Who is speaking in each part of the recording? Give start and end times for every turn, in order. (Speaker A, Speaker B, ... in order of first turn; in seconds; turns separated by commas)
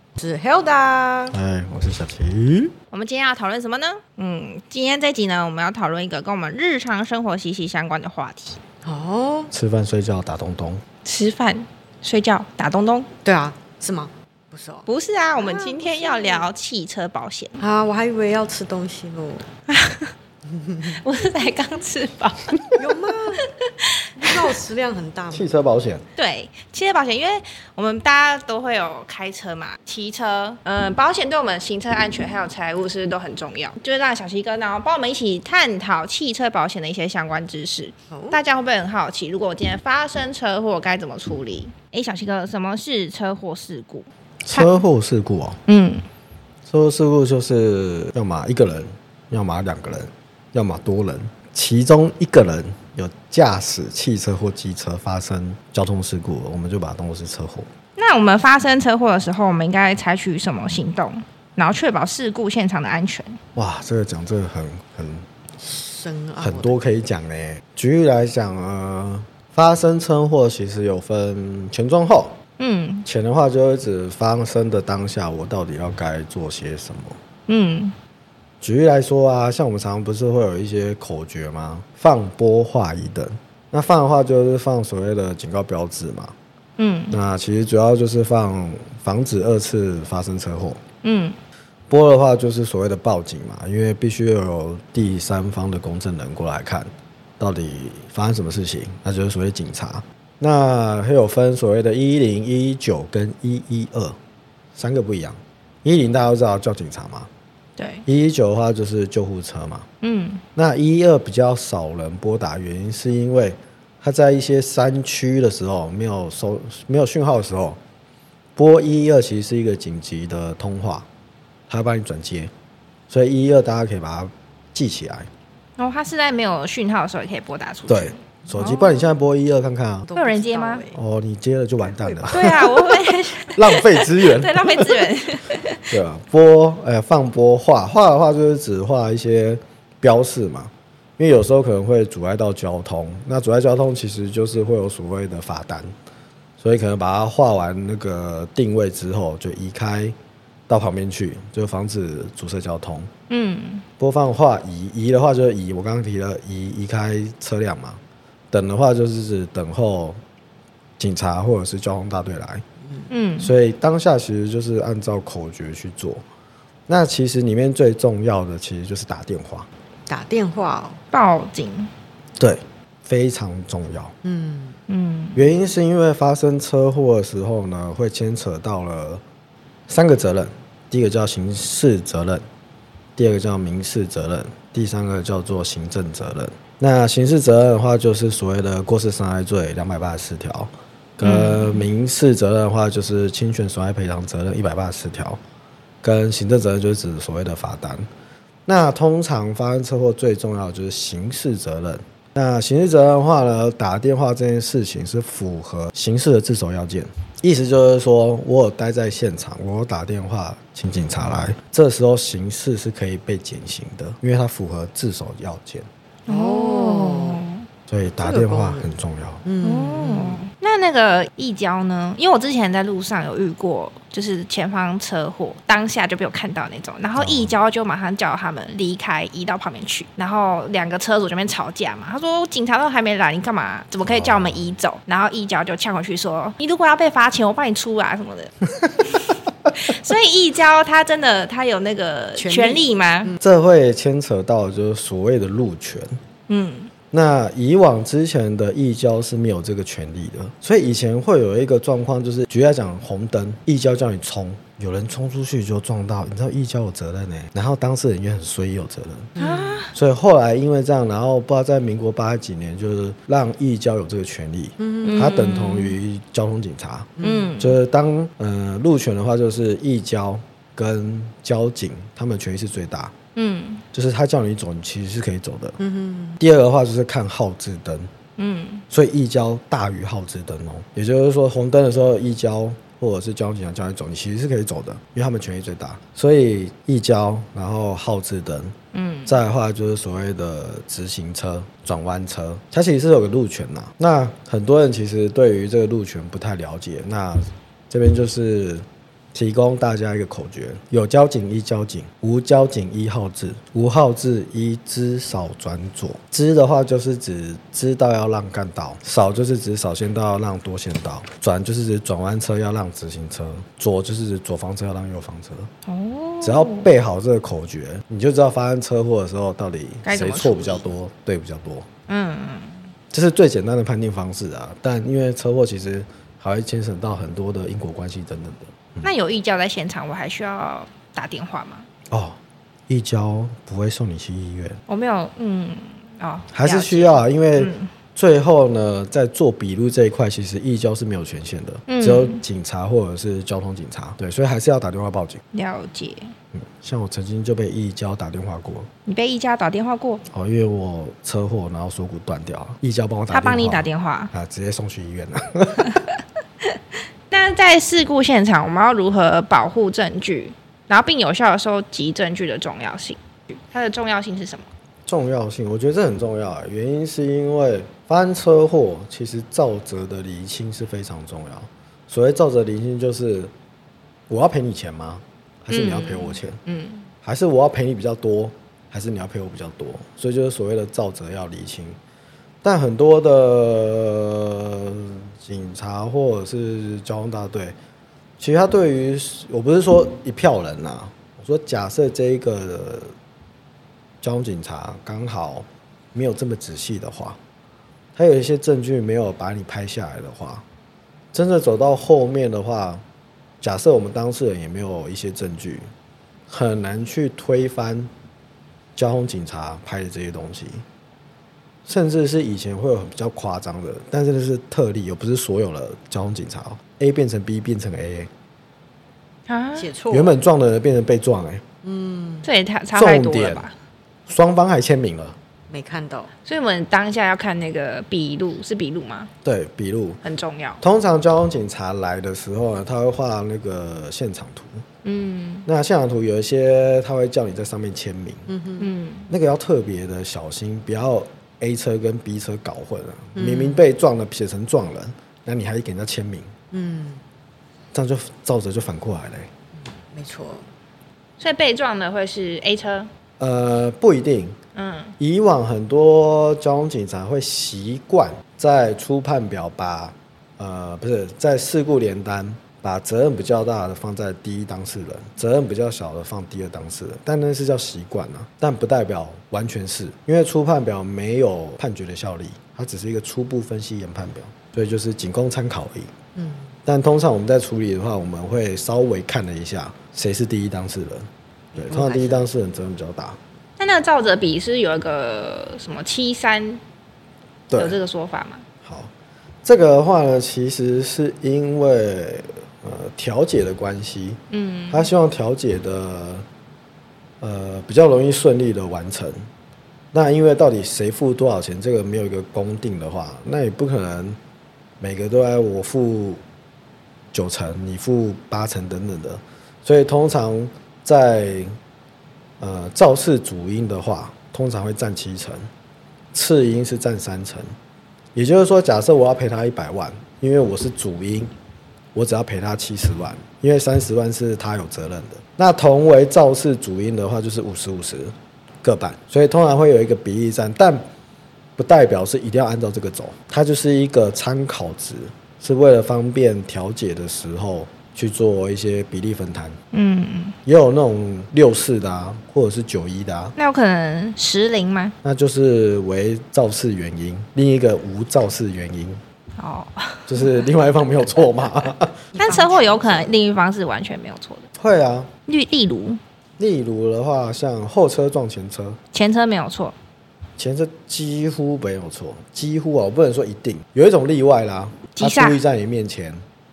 Speaker A: 0.2-1.4, Speaker B: 1.3-2.7, Speaker C: 2.9-8.6, Speaker A: 8.8-9.5, Speaker B: 9.5-10.8, Speaker C: 11.0-13.1, Speaker A: 13.2-16.5, Speaker C: 14.8-17.6, Speaker A: 17.6-19.5, Speaker C: 19.7-20.1, Speaker A: 20.5-21.0, Speaker C: 20.8-22.7, Speaker A: 22.8-23.4, Speaker C: 23.6-24.3, Speaker A: 24.2-25.5, Speaker B: 25.3-26.0, Speaker C: 26.1-44.7, Speaker A: 38.1-38.4, Speaker B: 44.4-45.6, Speaker C: 45.7-46.0, Speaker B: 46.7-57.7, Speaker C: 58.0-63.4, Speaker B: 63.5-65.2, Speaker A: 65.6-66.8, Speaker B: 66.4-72.3, Speaker C: 72.6-73.0, Speaker B: 73.0-77.2, Speaker C: 77.5-77.9, Speaker B: 78.6-86.3, Speaker C: 86.8-87.2, Speaker B: 87.1-90.8, Speaker C: 91.0-91.3, Speaker B: 91.9-104.2, Speaker B: 104.7-107.3, Speaker C: 107.8-108.0, Speaker B: 108.0-109.9, Speaker C: 110.0-110.4, Speaker B: 110.5-117.8, Speaker B: 118.5-121.1, Speaker B: 121.7-122.5, Speaker B: 123.1-125.3, Speaker C: 125.8-129.1, Speaker B: 127.9-130.1, Speaker A: 130.1-131.0, Speaker C: 130.1-130.8, Speaker B: 130.9-135.2, Speaker A: 131.9-132.2, Speaker C: 132.3-135.9, Speaker B: 135.8-145.9, Speaker B: 146.6-150.2, Speaker B: 150.7-153.1, Speaker C: 153.3-153.8, Speaker B: 154.0-158.0, Speaker B: 158.5-160.2, Speaker B: 161.0-162.6, Speaker C: 163.1-163.5, Speaker B: 163.4-166.2, Speaker B: 166.9-169.7, Speaker A: 170.1-171.0, Speaker C: 171.1-171.9, Speaker B: 172.4-174.1, Speaker A: 174.2-174.8, Speaker C: 174.9-175.5, Speaker B: 175.3-179.2, Speaker B: 179.9-182.4, Speaker B: 183.2-195.4, Speaker C: 191.2-191.8, Speaker B: 196.0-198.1, Speaker B: 198.7-215.9, Speaker A: 216.3-217.4, Speaker C: 216.3-217.7, Speaker B: 217.9-219.4, Speaker A: 218.2-218.9, Speaker A: 219.4-220.4, Speaker C: 219.6-243.3, Speaker B: 227.2-227.5, Speaker B: 234.0-234.6, Speaker A: 242.4-243.4, Speaker B: 243.4-246.2, Speaker C: 246.5-246.9, Speaker B: 247.1-259.3, Speaker A: 259.4-259.8, Speaker C: 259.4-259.9, Speaker B: 259.9-273.1, Speaker A: 264.8-265.3, Speaker C: 265.0-265.9, Speaker A: 267.2-267.5, Speaker C: 267.2-267.8, Speaker C: 273.4-273.8, Speaker B: 273.9-275.8, Speaker A: 275.8-276.4, Speaker B: 276.4-278.1, Speaker C: 278.4-278.8, Speaker B: 278.9-288.7, Speaker C: 288.9-289.4, Speaker B: 289.3-315.7, Speaker C: 315.8-316.9, Speaker B: 316.4-321.9, Speaker C: 320.0-320.8, Speaker C: 322.1-322.9, Speaker B: 323.1-329.1, Speaker C: 329.0-331.9, Speaker B: 332.1-332.4, Speaker B: 332.9-334.8, Speaker C: 334.9-337.9, Speaker B: 336.5-345.4, Speaker C: 341.9-342.4, Speaker C: 345.5-346.3, Speaker B: 346.5-348.9, Speaker C: 349.1-350.2, Speaker B: 350.3-356.0, Speaker C: 353.3-354.3, Speaker C: 357.3-364.7, Speaker B: 365.1-373.5, Speaker B: 374.3-376.6, Speaker C: 375.7-377.1, Speaker B: 377.2-382.0, Speaker B: 382.6-387.8, Speaker B: 388.4-393.1, Speaker B: 394.2-397.4, Speaker B: 398.1-400.6, Speaker B: 401.3-403.0, Speaker B: 403.6-405.9, Speaker B: 406.5-408.1, Speaker B: 408.9-410.8, Speaker B: 411.9-418.3, Speaker C: 419.5-419.9, Speaker A: 419.8-420.4, Speaker B: 420.1-421.6, Speaker A: 421.8-422.5, Speaker C: 422.4-423.7, Speaker B: 422.9-423.7, Speaker B: 424.3-425.4, Speaker A: 425.7-426.3, Speaker C: 426.4-429.3, Speaker B: 429.4-430.2, Speaker C: 430.2-430.8, Speaker B: 430.8-434.8, Speaker C: 435.0-435.6, Speaker B: 435.6-438.5, Speaker A: 438.5-438.9, Speaker C: 438.8-439.3, Speaker B: 439.3-446.5, Speaker A: 443.3-443.9, Speaker A: 446.7-447.2, Speaker B: 447.9-449.5, Speaker A: 450.1-450.6, Speaker C: 451.4-453.1, Speaker B: 453.4-454.6, Speaker C: 454.7-455.1, Speaker B: 455.2-476.1, Speaker A: 476.4-476.8, Speaker B: 476.9-483.4, Speaker A: 481.7-482.5, Speaker C: 483.8-486.8, Speaker B: 487.7-488.0, Speaker C: 487.7-488.6, Speaker B: 488.8-489.1, Speaker B: 489.6-494.4, Speaker C: 494.5-495.1, Speaker B: 494.9-496.4, Speaker B: 497.4-499.4, Speaker B: 500.1-504.4, Speaker B: 505.0-506.4, Speaker B: 507.3-511.7, Speaker B: 512.6-515.7, Speaker B: 516.3-517.7, Speaker B: 518.3-521.5, Speaker B: 522.1-531.0, Speaker B: 531.8-539.8, Speaker C: 539.9-540.5, Speaker B: 540.6-543.5, Speaker C: 543.5-545.1, Speaker B: 545.2-549.2, Speaker C: 549.6-550.6, Speaker B: 550.3-552.2, Speaker A: 552.3-553.3, Speaker C: 552.4-554.7, Speaker B: 554.8-555.3, Speaker C: 555.5-556.2, Speaker B: 556.6-559.0, Speaker C: 559.1-560.0, Speaker B: 560.6-566.4, Speaker C: 565.1-565.6